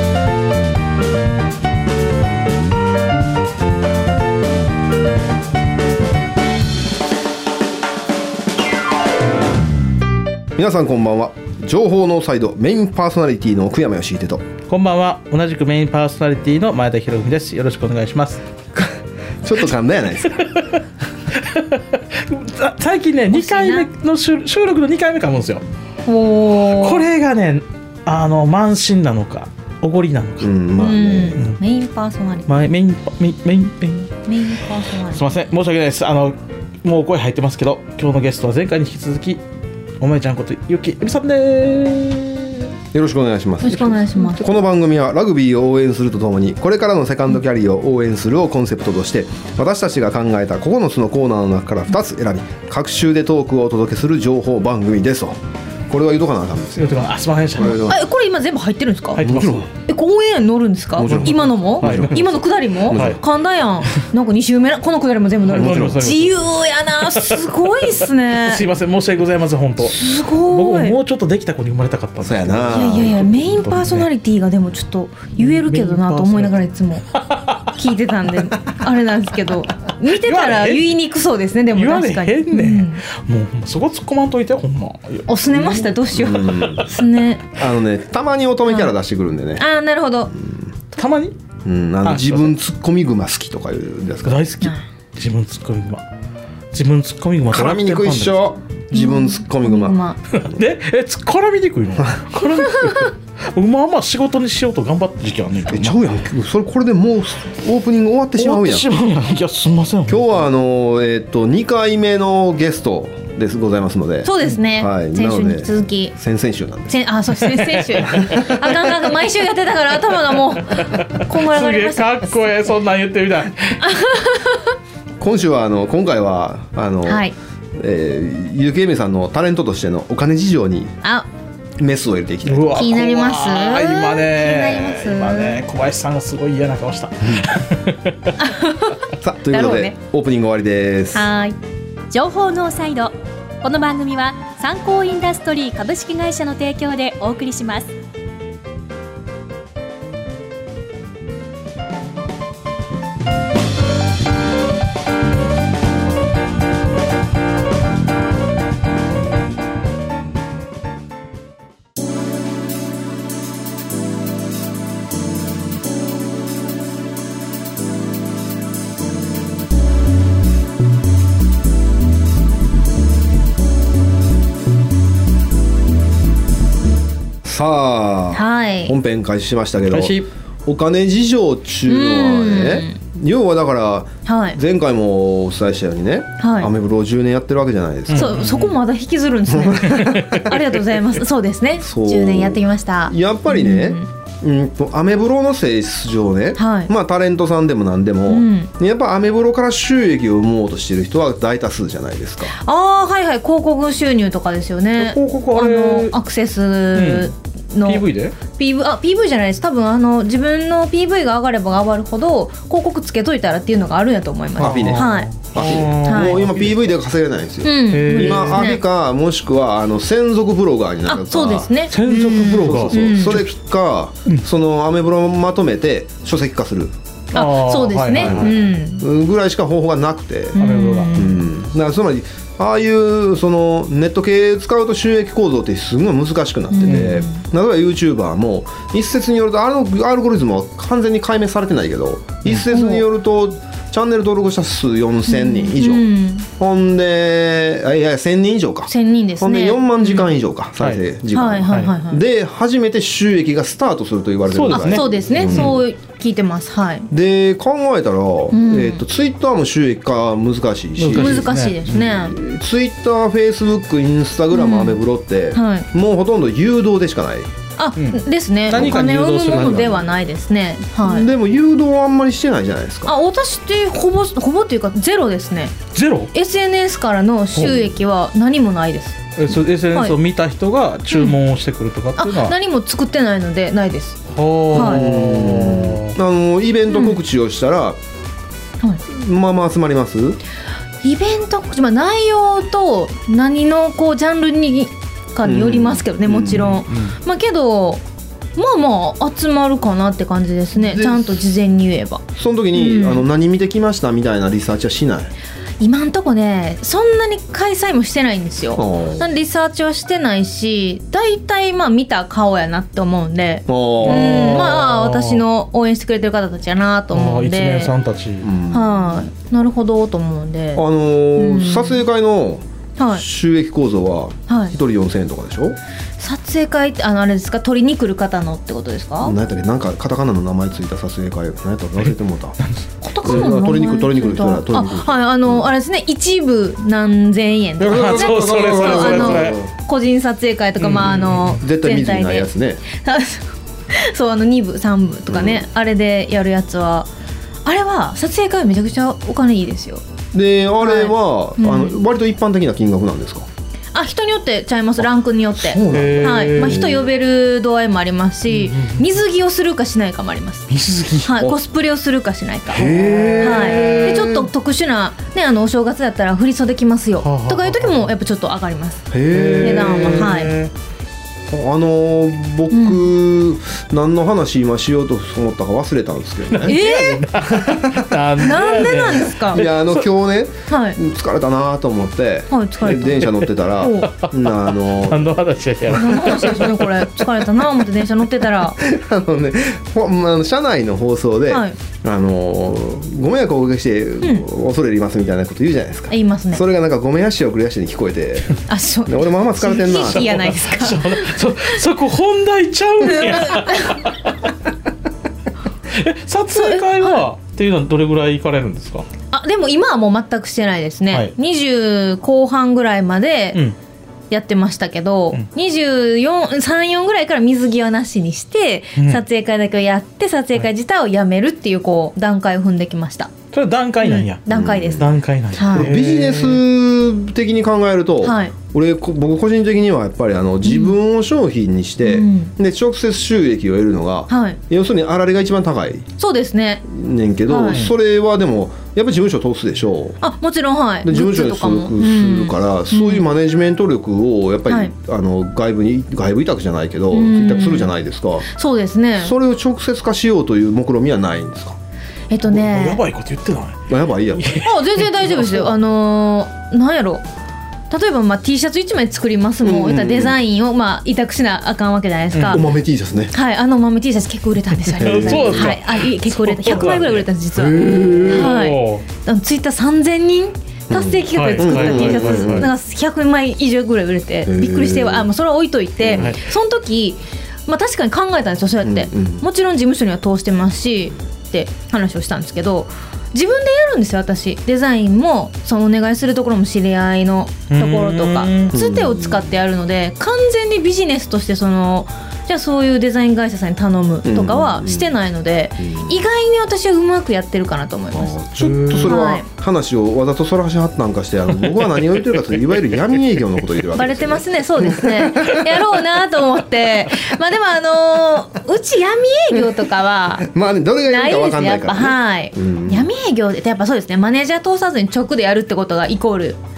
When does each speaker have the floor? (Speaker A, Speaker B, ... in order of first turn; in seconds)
Speaker A: 10.5-14.4, 18.7-20.6, 30.4-31.4, 42.9-56.9, 57.5-58.1, 59.2-59.7, 61.0-62.3, 62.9-63.2, 65.5-66.1, 72.2-73.2, 86.1-86.9, 87.5-89.6, 91.6-94.4, 97.5-100.0, 105.7-108.9, 110.1-117.0, 125.2-131.0, 131.8-132.9, 139.2-141.3, 177.4-188.5, 189.5-190.5, 191.8-202.5, 214.6-226.9, 228.1-230.6, 231.1-255.8, 257.1-267.5, 268.7-270.1, 271.0-273.1, 284.7-288.0, 289.1-290.4, 295.4-296.8, 300.8-301.4, 302.3-305.3, 308.7-309.2, 313.7-314.8, 318.4-319.3, 320.7-325.8, 329.2-332.6, 333.2-335.7, 337.8-339.7, 341.6-342.8, 345.3-345.6, 350.3-353.5, 355.6-357.1, 362.7-364.3, 369.1-370.5, 371.5-376.8, 377.4-378.2, 379.4-385.4, 388.8-400.5, 424.5-425.1, 425.7-436.1, 436.8-440.2, 441.0-448.5, 449.2-451.8, 453.9-454.7, 459.6-460.4, 462.5-463.3, 465.0-465.8, 467.6-468.6, 470.9-472.7, 474.4-475.3, 476.0-476.3, 478.8-479.4, 488.7-489.5, 494.2-495.1, 495.8-496.2, 498.1-505.8, 510.4-513.1
Speaker B: 14.7-18.4, 21.3-25.6, 26.6-30.5, 32.5-34.1, 35.1-39.4, 40.0-42.7, 56.8-57.9, 59.2-59.7, 61.0-62.4, 62.9-63.2, 65.5-66.4, 68.0-74.1, 75.4-77.7, 80.1-81.0, 81.7-85.9, 86.4-86.8, 91.0-91.3, 92.0-92.5, 94.2-96.0, 96.7-98.4, 100.3-106.0, 108.4-110.3, 117.5-118.5, 120.9-123.8, 132.4-138.4, 179.9-180.3, 188.1-188.7, 189.9-190.6, 205.0-206.1, 206.9-207.3, 207.8-208.3, 214.6-216.8, 217.9-218.7, 221.9-223.5, 227.3-228.6, 230.6-231.3, 236.8-237.2, 254.5-255.8, 261.0-261.8, 268.0-269.9, 275.9-276.3, 279.4-282.5, 284.3-286.1, 296.5-297.1, 314.0-315.4, 317.1-318.5, 332.6-333.5, 337.9-339.6, 340.8-341.6, 355.9-356.8, 358.5-359.0, 360.7-361.4, 362.7-364.5, 367.2-368.1, 369.3-370.7, 376.5-380.0, 383.4-387.1, 400.1-404.3, 405.9-409.1, 419.0-419.2, 423.5-426.6, 452.5-455.6, 462.3-462.6, 465.0-469.0, 471.3-472.7, 487.7-488.7, 498.6-499.2
Speaker C: 23.3-23.9, 26.1-27.1, 30.8-32.5, 34.3-35.2, 43.6-44.6, 57.8-59.3, 59.9-68.6, 69.9-71.0, 72.7-77.0, 77.7-83.0, 85.3-87.4, 89.6-90.3, 98.9-100.2, 114.2-116.1, 116.9-122.5, 123.8-124.7, 127.0-127.3, 132.7-135.6, 138.4-139.9, 141.1-141.6, 178.3-178.9, 181.8-183.0, 184.2-184.6, 186.4-186.7, 188.1-194.1, 196.6-196.9, 198.3-198.7, 202.5-216.4, 217.6-218.8, 221.1-223.4, 227.3-229.0, 230.5-231.4, 236.7-237.4, 242.7-243.0, 245.3-246.5, 248.9-250.3, 251.3-252.2, 254.7-257.1, 258.5-259.0, 261.1-262.4, 264.5-265.0, 265.5-265.9, 267.8-271.3, 273.1-275.8, 276.3-279.2, 281.1-281.4, 282.2-285.1, 286.9-287.2, 291.0-298.0, 298.6-302.2, 302.7-303.2, 305.8-317.9, 318.7-322.0, 323.0-323.2, 324.5-324.7, 326.2-329.3, 333.0-347.1, 347.6-350.0, 350.8-352.0, 353.9-369.1, 369.6-370.5, 372.7-373.1, 376.6-377.3, 378.4-379.6, 380.7-381.0, 382.5-384.1, 385.9-388.8, 391.5-391.7, 396.1-396.6, 398.7-401.4, 403.0-404.0, 406.5-407.2, 409.3-413.6, 414.3-423.3, 424.0-425.9, 428.2-428.5, 430.6-431.0, 432.0-432.5, 434.3-434.6, 436.2-436.8, 437.5-437.8, 440.2-443.3, 447.1-447.9, 448.5-449.3, 452.3-453.0, 454.6-457.2, 457.9-462.6, 463.3-498.4, 499.0-499.4, 503.9-510.5, 511.1-516.6
Speaker D: 142.1-147.9